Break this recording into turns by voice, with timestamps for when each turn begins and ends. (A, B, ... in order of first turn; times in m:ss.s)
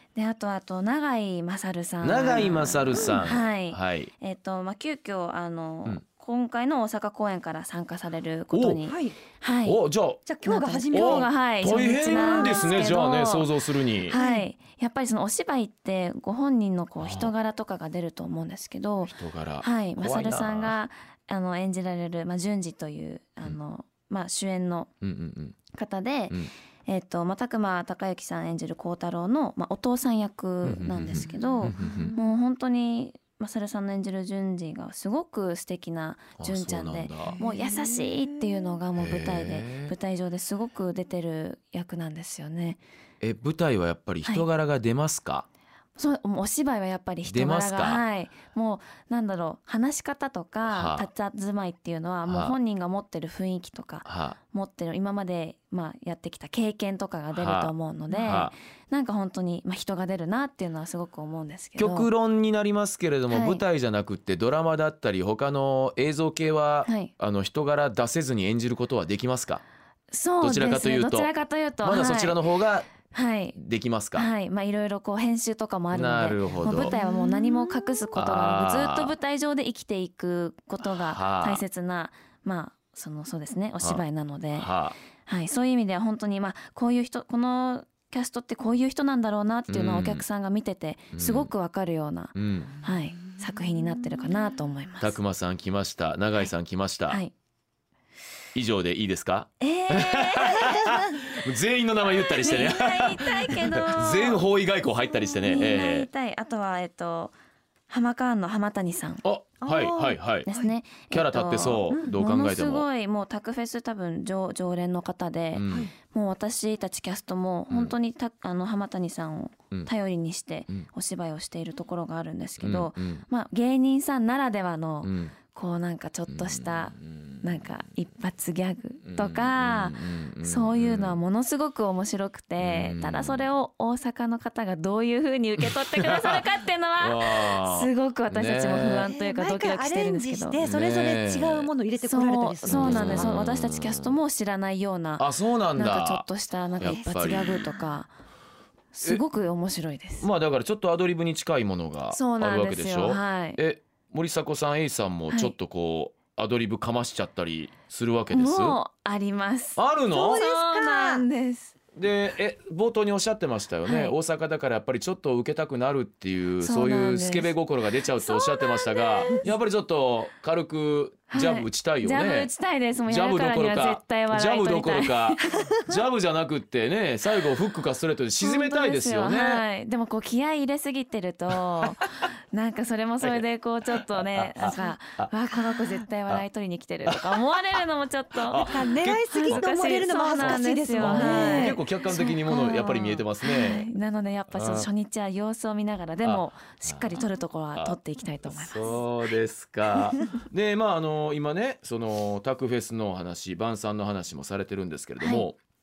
0:00.1-0:09.8 A
0:02.0-0:04.1 B
0:08.5-0:08.8 B
0:08.9-0:09.2 C
0:09.6-0:10.2 B
0:10.2-0:12.9 C
0:10.4-0:13.5 A
0:10.9-0:14.2 B
0:14.1-0:24.9 A
0:14.1-0:14.4 C
0:17.0-0:17.3 B
0:19.1-0:20.8 B
0:25.0-0:25.6 B
0:25.7-0:42.8 A
0:30.6-0:32.1 B
0:31.8-0:32.2 C
0:36.4-0:37.4 B
0:37.3-0:38.4 C
0:39.0-0:39.9 B
0:43.2-0:45.4 B
0:46.0-1:02.1 A
0:47.2-0:48.0 B
0:50.7-0:51.1 B
0:52.3-0:52.6 B
0:54.0-0:54.4 B
0:57.3-0:58.5 B
1:01.8-1:09.6 B
1:03.3-1:03.6 A
1:06.8-1:07.1 A
1:10.1-1:12.4 A
1:10.4-1:11.3 B
1:11.8-1:12.9 B
1:13.1-1:13.6 A
1:13.5-1:14.3 B
1:14.1-1:24.7 A
1:15.9-1:17.0 B
1:16.9-1:17.3 C
1:18.1-1:19.1 B
1:20.8-1:21.6 B
1:24.5-1:25.0 B
1:25.2-1:35.2 A
1:29.7-1:30.2 B
1:31.1-1:31.5 B
1:32.3-1:32.8 B
1:35.0-1:37.2 B
1:38.5-1:46.1 B
1:39.6-1:41.0 A
1:42.2-1:44.4 A
1:45.4-1:47.3 A
1:47.9-1:49.2 A
1:49.2-1:50.5 B
1:49.6-1:50.7 C
1:50.4-2:20.6 A
1:51.1-1:52.8 B
1:55.5-1:55.9 B
2:02.6-2:03.2 B
2:05.0-2:05.3 B
2:06.3-2:07.6 B
2:09.0-2:11.2 B
2:12.6-2:13.5 B
2:16.0-2:16.4 B
2:17.0-2:19.1 B
2:18.9-2:23.4 C
2:20.6-2:21.7 B
2:22.0-2:28.1 A
2:22.7-2:24.2 B
2:25.2-2:26.2 B
2:26.8-2:27.7 B
2:28.9-2:30.3 A
2:30.2-2:38.8 B
2:32.1-2:33.6 A
2:38.3-2:41.8 A
2:39.8-2:40.4 B
2:40.1-2:41.2 C
2:41.9-2:52.5 B
2:43.8-2:44.2 A
2:46.6-2:47.5 A
2:48.2-2:49.4 A
2:51.3-2:55.6 A
2:53.0-2:59.6 B
2:58.4-3:08.7 A
3:03.2-3:05.3 B
3:07.1-3:07.4 B
3:08.4-3:13.9 B
3:08.5-3:11.8 C
3:09.3-3:19.0 A
3:14.5-3:14.9 B
3:16.2-3:25.6 B
3:25.2-3:25.5 A